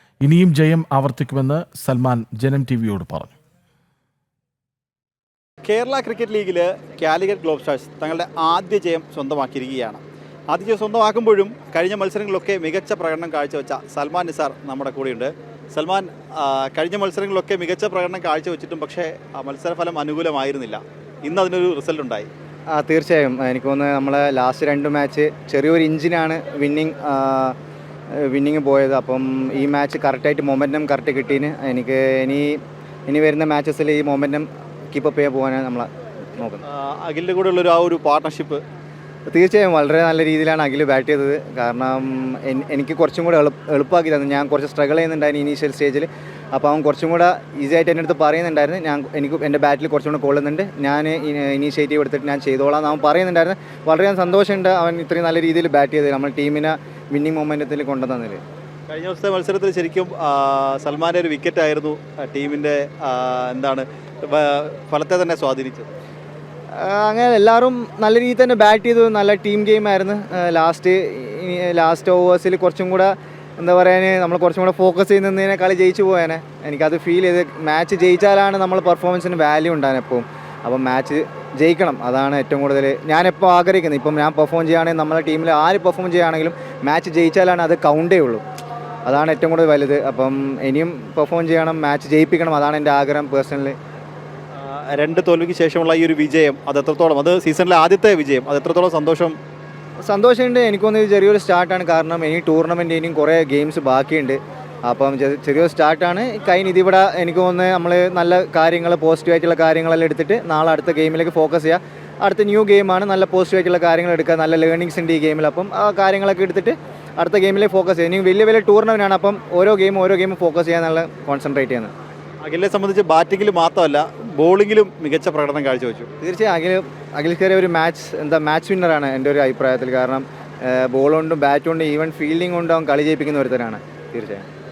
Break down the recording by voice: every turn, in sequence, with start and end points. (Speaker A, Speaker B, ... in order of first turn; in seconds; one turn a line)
Speaker A: 0.2-3.3
Speaker B: 5.6-22.3
Speaker C: 22.7-27.5
Speaker C: 28.1-36.6
Speaker B: 36.6-38.6
Speaker C: 39.3-58.4
Speaker B: 58.9-65.9
Speaker C: 66.7-88.4
Speaker C: 89.1-93.8
Speaker B: 94.6-99.3
Speaker C: 100.0-121.9
Speaker B: 122.4-126.1
Speaker C: 126.2-134.4